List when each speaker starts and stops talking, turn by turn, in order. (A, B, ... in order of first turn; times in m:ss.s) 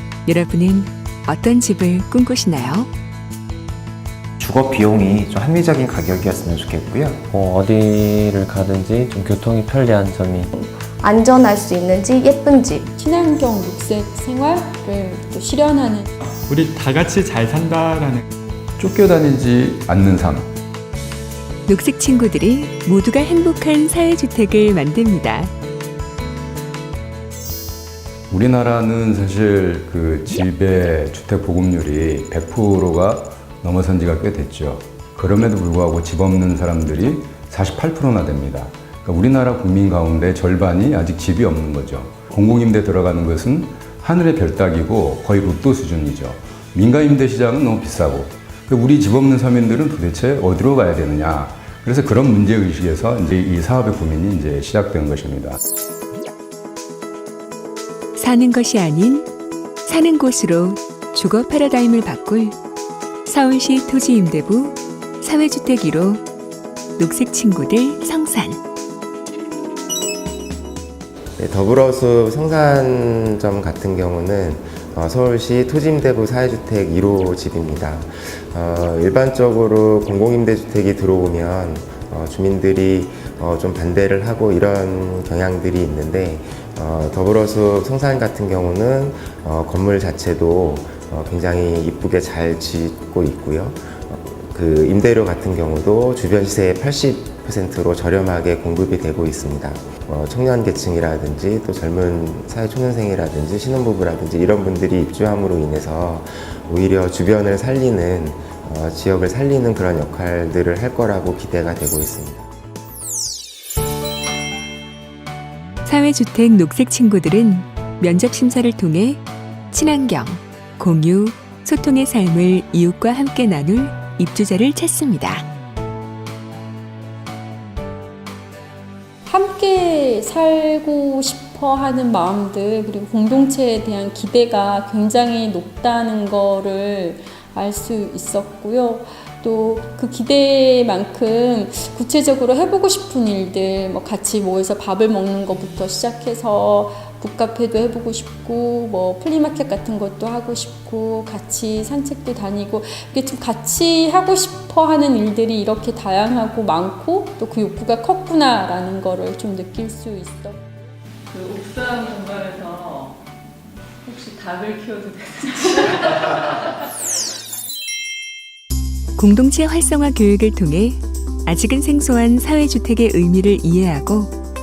0:00.3-0:02.9 A
0:04.4-0:07.3 B
0:07.3-0:10.5 C
0:10.6-0:12.9 D
0:13.0-0:16.1 E
0:16.2-0:18.2 F
0:18.8-0:20.5 G
0:21.7-0:25.5 A
0:28.3-0:55.6 G
0:58.2-0:59.3 A
0:59.9-1:02.6 A
1:03.3-1:06.2 A
1:07.0-1:08.6 A
1:11.4-1:52.5 H
1:55.9-2:05.4 A
2:09.2-2:40.6 E
2:41.3-2:43.1 I
2:44.0-2:45.8 I
2:49.2-2:54.3 A